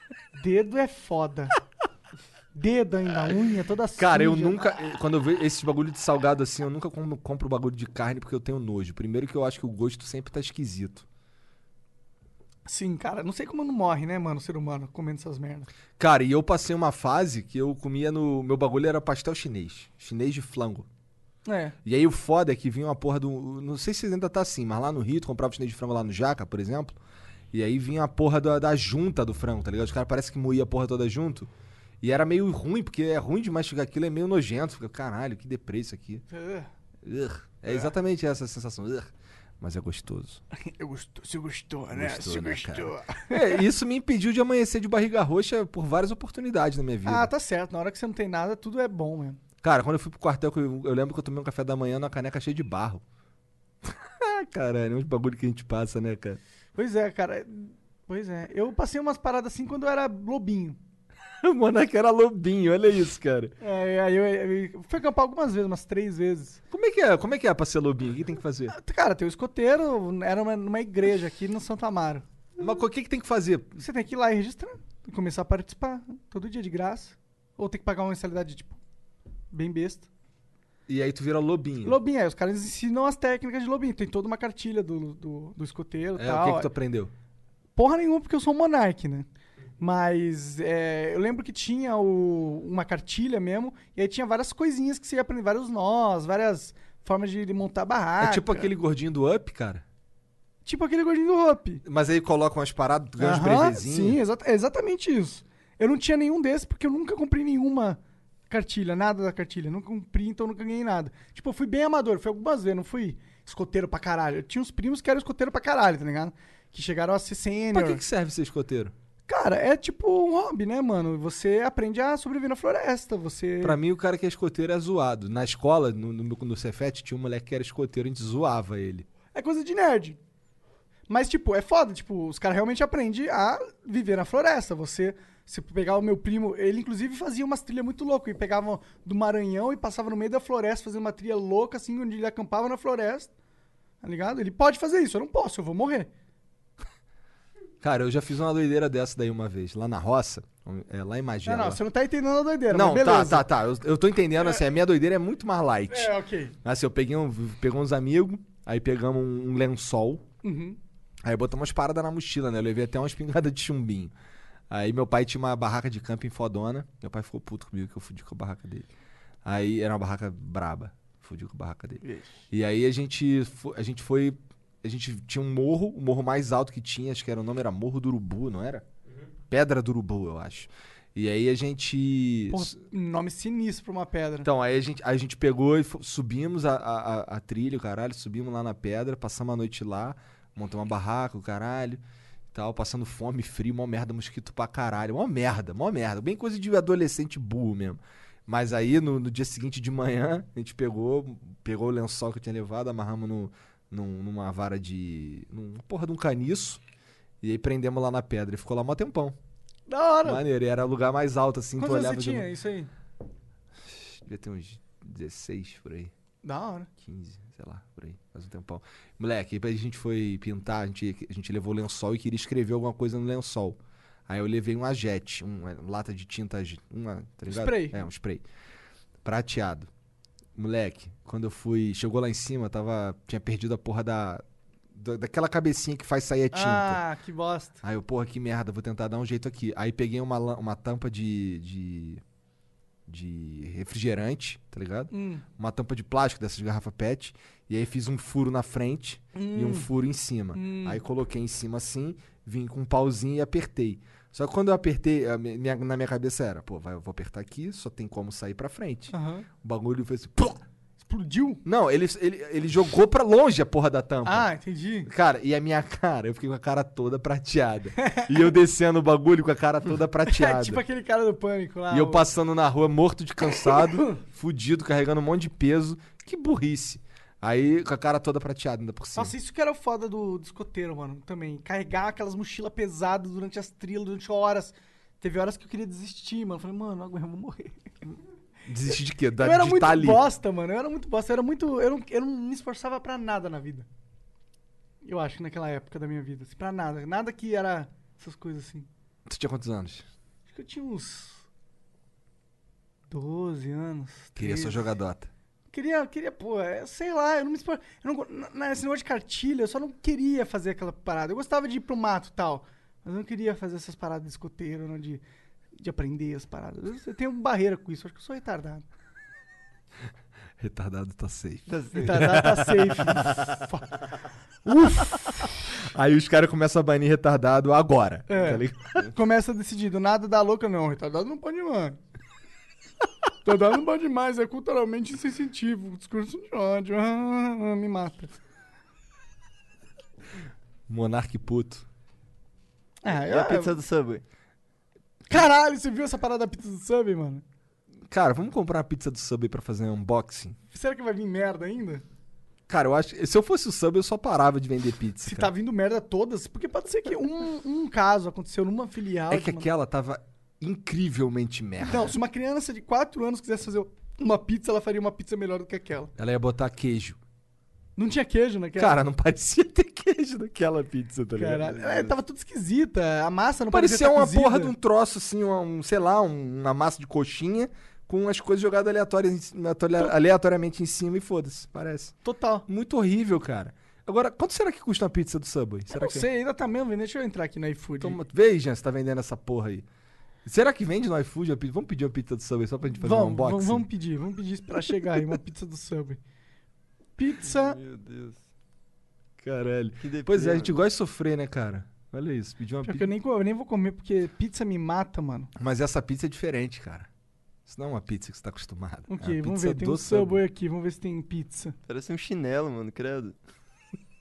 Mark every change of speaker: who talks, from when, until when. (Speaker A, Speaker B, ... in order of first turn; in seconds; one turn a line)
Speaker A: 0.3-1.6
Speaker A: 2.5-4.8
Speaker B: 4.0-11.1
Speaker A: 12.7-15.7
Speaker B: 16.0-20.9
Speaker A: 21.4-21.8
Speaker B: 21.8-27.0
Speaker B: 27.5-31.5
Speaker B: 32.0-36.2
Speaker A: 36.3-36.7
Speaker B: 37.0-40.4
Speaker A: 40.5-43.6
Speaker B: 41.9-47.3
Speaker A: 47.0-49.4
Speaker B: 49.6-53.0
Speaker B: 53.8-56.4
Speaker A: 56.8-60.8
Speaker B: 61.4-63.5
Speaker A: 63.6-66.6
Speaker B: 66.7-68.8
Speaker A: 68.7-72.2
Speaker B: 72.6-73.8
Speaker A: 73.8-78.8
Speaker A: 79.5-80.1
Speaker B: 80.9-82.0
Speaker A: 81.8-86.7
Speaker B: 86.2-87.1
Speaker A: 87.8-89.3
Speaker A: 89.8-98.7
Speaker B: 98.2-99.8
Speaker A: 100.6-101.8
Speaker B: 101.8-104.2
Speaker A: 103.2-108.0
Speaker A: 108.5-118.0
Speaker B: 117.7-118.9
Speaker A: 119.3-123.8
Speaker B: 123.6-129.1
Speaker A: 129.3-130.2
Speaker A: 131.1-143.3
Speaker A: 144.0-146.1
Speaker B: 147.8-151.8
Speaker A: 151.4-153.5
Speaker B: 152.7-156.1
Speaker A: 155.9-156.6
Speaker B: 156.6-160.2
Speaker A: 160.4-160.8
Speaker B: 161.2-164.1
Speaker B: 164.7-168.9
Speaker B: 169.4-178.8
Speaker A: 172.0-172.4
Speaker B: 179.5-182.7
Speaker A: 182.5-184.5
Speaker B: 184.4-192.0
Speaker B: 192.5-206.8
Speaker B: 207.4-209.3
Speaker A: 209.9-210.4
Speaker B: 210.2-212.5
Speaker A: 211.8-212.9
Speaker B: 213.8-216.1
Speaker A: 216.4-216.9
Speaker B: 217.0-228.4
Speaker A: 227.5-228.1
Speaker B: 229.2-229.9
Speaker B: 230.6-237.0
Speaker A: 236.5-237.8
Speaker B: 237.8-242.2
Speaker B: 243.1-260.6
Speaker A: 245.1-245.4
Speaker A: 249.3-249.9
Speaker A: 250.5-251.0
Speaker A: 259.1-259.5
Speaker A: 261.0-261.6
Speaker B: 261.6-264.5
Speaker A: 264.2-265.1
Speaker B: 265.1-270.8
Speaker A: 268.0-268.4
Speaker A: 270.2-272.3
Speaker B: 271.9-279.3
Speaker A: 273.6-274.2
Speaker A: 279.1-287.9
Speaker B: 288.6-290.2
Speaker A: 289.4-293.9
Speaker A: 295.0-298.9
Speaker B: 299.2-300.1
Speaker A: 300.5-301.4
Speaker A: 303.1-304.8
Speaker B: 304.4-305.3
Speaker A: 305.7-315.2
Speaker A: 315.8-318.8
Speaker B: 320.6-323.5
Speaker C: 321.7-322.4
Speaker A: 321.9-324.0
Speaker A: 324.7-325.5
Speaker B: 324.7-329.1
Speaker A: 328.3-332.0
Speaker A: 333.4-338.3
Speaker B: 340.9-341.9
Speaker A: 343.0-343.8
Speaker C: 343.1-344.2
Speaker A: 345.3-347.4
Speaker B: 348.1-350.6
Speaker A: 350.7-352.0
Speaker B: 352.7-355.5
Speaker A: 355.2-359.7
Speaker B: 359.3-362.1
Speaker A: 361.9-366.1
Speaker B: 366.2-367.2
Speaker A: 368.0-369.0
Speaker B: 368.8-372.1
Speaker A: 371.4-374.7
Speaker B: 373.7-382.1
Speaker A: 382.2-382.6
Speaker B: 382.7-386.3
Speaker A: 385.9-388.2
Speaker B: 388.0-389.9
Speaker B: 390.4-393.9
Speaker A: 393.0-396.2
Speaker A: 397.2-397.8
Speaker C: 397.4-398.4
Speaker B: 399.4-403.1
Speaker C: 400.0-400.8
Speaker A: 402.8-405.5
Speaker B: 405.6-407.1
Speaker B: 407.6-410.4
Speaker A: 409.1-411.8
Speaker C: 411.9-413.4